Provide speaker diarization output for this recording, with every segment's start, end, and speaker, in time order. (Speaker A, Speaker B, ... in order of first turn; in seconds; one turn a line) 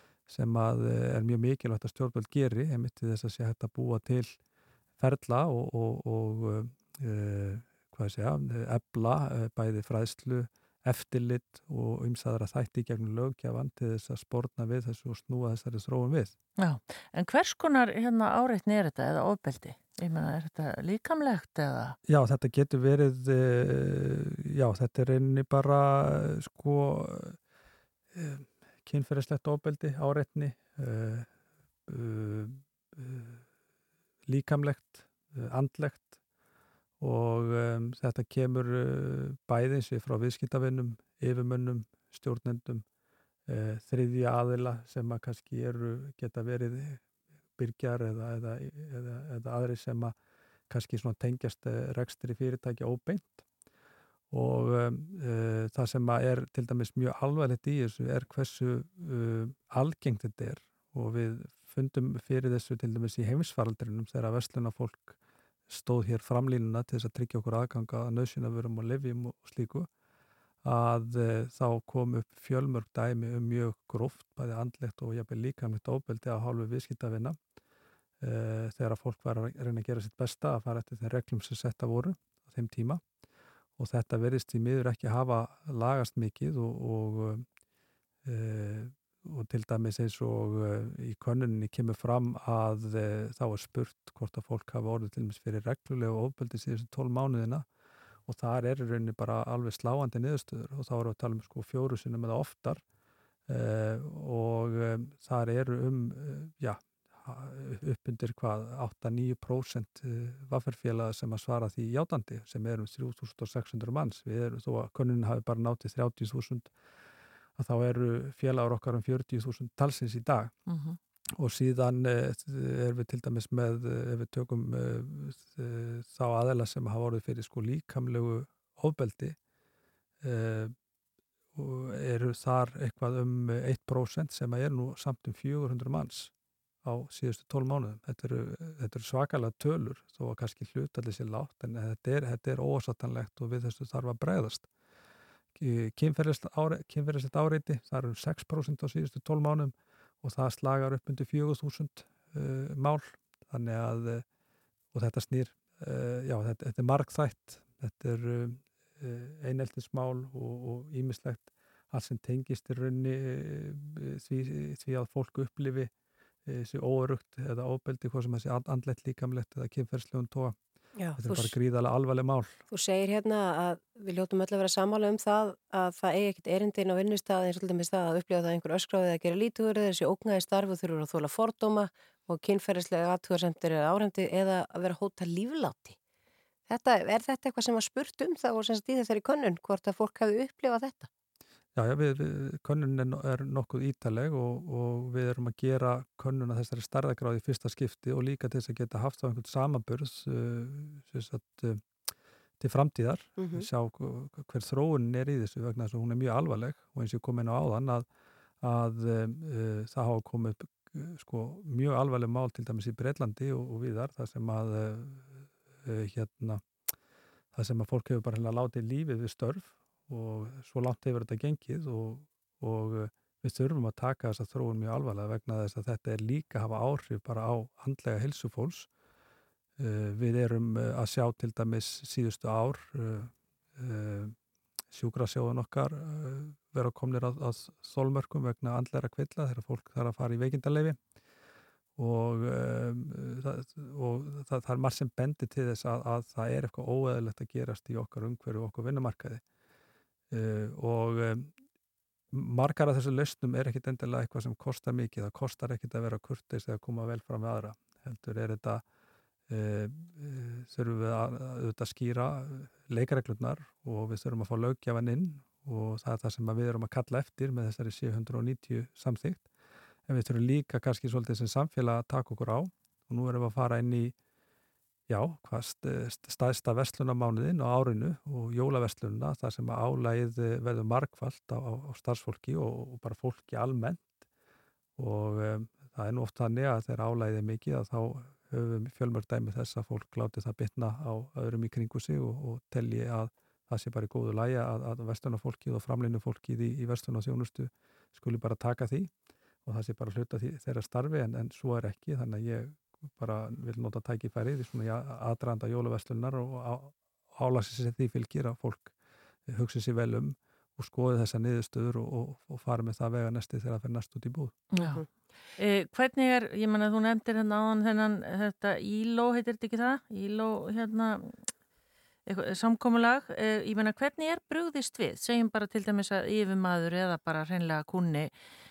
Speaker A: 0.3-4.4
Speaker A: 5.0-16.4
Speaker B: 16.6-22.0
Speaker A: 22.1-27.4
Speaker A: 28.1-31.3
Speaker A: 31.9-33.4
Speaker A: 34.3-36.1
Speaker A: 37.0-42.9
Speaker A: 43.5-47.0
Speaker A: 47.6-50.1
Speaker A: 50.7-53.4
Speaker A: 54.3-65.2
Speaker A: 65.7-69.9
Speaker A: 70.7-77.4
Speaker A: 78.2-83.0
Speaker A: 83.8-87.5
Speaker A: 88.2-97.7
Speaker A: 98.3-102.8
Speaker A: 103.5-116.7
Speaker A: 117.6-120.5
Speaker B: 120.7-121.0
Speaker A: 121.4-129.4
Speaker A: 130.2-130.8
Speaker A: 131.6-136.3
Speaker A: 136.8-144.7
Speaker A: 145.6-154.2
Speaker A: 154.9-165.9
Speaker A: 166.5-170.6
Speaker C: 171.0-171.5
Speaker A: 171.2-172.6
Speaker C: 172.7-186.0
Speaker C: 186.7-191.1
Speaker A: 191.8-201.8
Speaker A: 202.6-208.1
Speaker C: 203.4-203.7
Speaker A: 208.6-216.6
Speaker A: 217.5-228.9
Speaker A: 229.8-234.4
Speaker A: 234.9-241.0
Speaker A: 242.0-249.4
Speaker A: 250.3-251.5
Speaker A: 252.3-258.8
Speaker A: 259.5-269.5
Speaker A: 270.1-274.1
Speaker A: 275.1-284.1
Speaker A: 285.0-299.1
Speaker A: 299.6-308.9
Speaker A: 309.5-314.6
Speaker B: 314.8-315.0
Speaker B: 315.6-321.3
Speaker B: 322.3-328.3